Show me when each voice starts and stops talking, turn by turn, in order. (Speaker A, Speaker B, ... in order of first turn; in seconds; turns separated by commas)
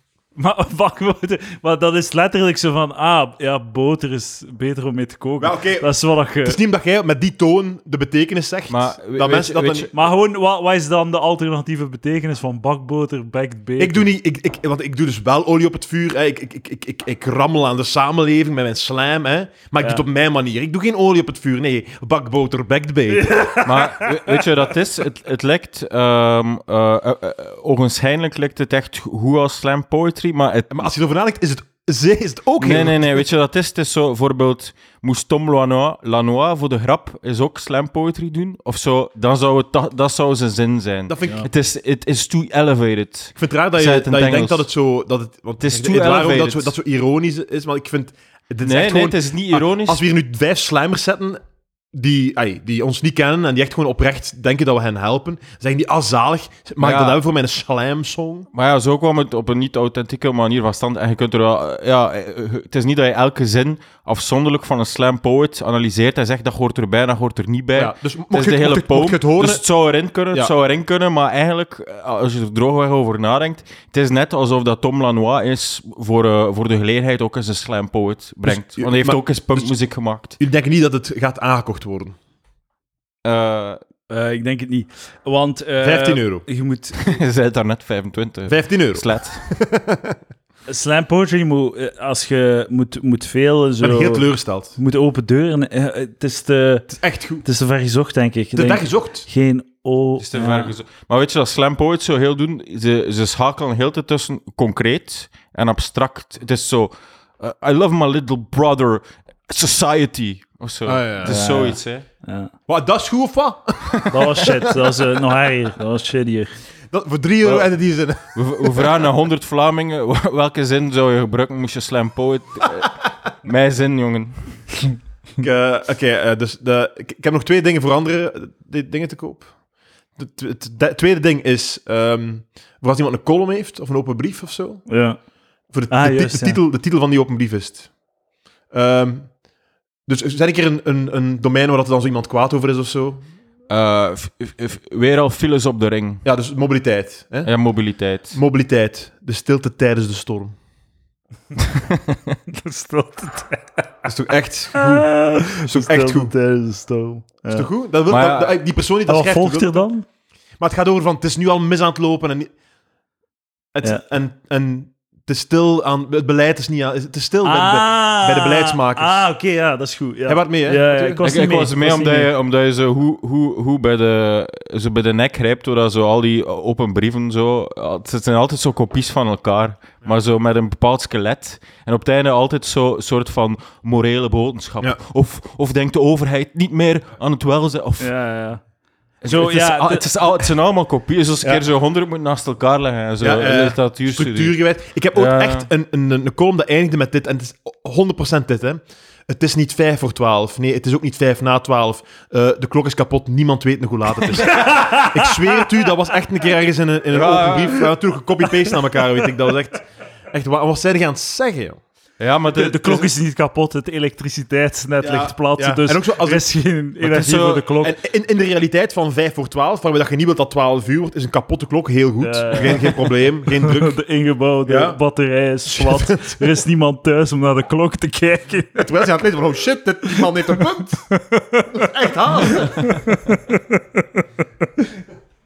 Speaker A: 0.3-6.6, Speaker B: 5.4-9.9, Speaker C: 8.7-9.9, Speaker A: 9.9-14.1, Speaker B: 13.8-23.5, Speaker A: 23.1-24.4, Speaker C: 23.6-30.9, Speaker B: 30.7-33.2, Speaker C: 32.6-44.7, Speaker B: 41.1-41.5, Speaker B: 43.4-51.4, Speaker C: 45.6-46.7, Speaker C: 48.6-50.0, Speaker B: 51.9-58.5, Speaker C: 56.8-57.2, Speaker C: 58.5-80.4, Speaker B: 67.7-69.6, Speaker B: 78.4-79.7, Speaker B: 80.4-82.2, Speaker C: 83.2-83.8, Speaker A: 84.1-87.1, Speaker B: 85.8-86.4, Speaker C: 87.0-89.5, Speaker B: 88.5-90.2, Speaker A: 90.7-96.9, Speaker B: 93.8-94.8, Speaker B: 96.9-97.4, Speaker A: 97.4-100.7, Speaker B: 98.5-99.3, Speaker C: 100.2-112.0, Speaker B: 110.8-111.4, Speaker A: 111.2-112.5, Speaker B: 112.7-115.0, Speaker A: 114.1-116.6, Speaker B: 116.9-119.0, Speaker C: 117.4-117.7, Speaker C: 118.3-124.7, Speaker B: 125.4-129.5, Speaker B: 130.2-134.9, Speaker A: 134.9-135.2, Speaker B: 135.7-137.9, Speaker A: 135.9-136.6, Speaker B: 138.7-139.3, Speaker B: 140.1-143.2, Speaker C: 143.7-146.2, Speaker B: 146.2-147.5, Speaker C: 147.4-148.4, Speaker B: 148.3-150.6, Speaker C: 151.9-152.2, Speaker A: 152.5-153.8, Speaker B: 154.0-156.3, Speaker A: 154.7-157.7, Speaker B: 157.5-159.8, Speaker C: 158.1-158.6, Speaker A: 159.1-160.0, Speaker B: 160.6-162.5, Speaker B: 163.7-169.2, Speaker A: 167.4-172.3, Speaker B: 170.3-171.2, Speaker C: 171.2-188.1, Speaker A: 188.0-188.6, Speaker C: 189.2-194.6, Speaker A: 189.2-190.1, Speaker B: 193.2-211.8, Speaker C: 195.1-195.7, Speaker A: 204.4-205.6, Speaker C: 207.1-207.9, Speaker C: 212.2-213.1, Speaker A: 212.5-217.9, Speaker B: 215.0-216.5, Speaker C: 217.0-217.7, Speaker B: 217.7-223.9, Speaker A: 222.2-228.9, Speaker B: 224.7-225.0, Speaker B: 225.7-226.6, Speaker B: 228.8-231.1, Speaker A: 231.1-234.2, Speaker B: 231.7-232.9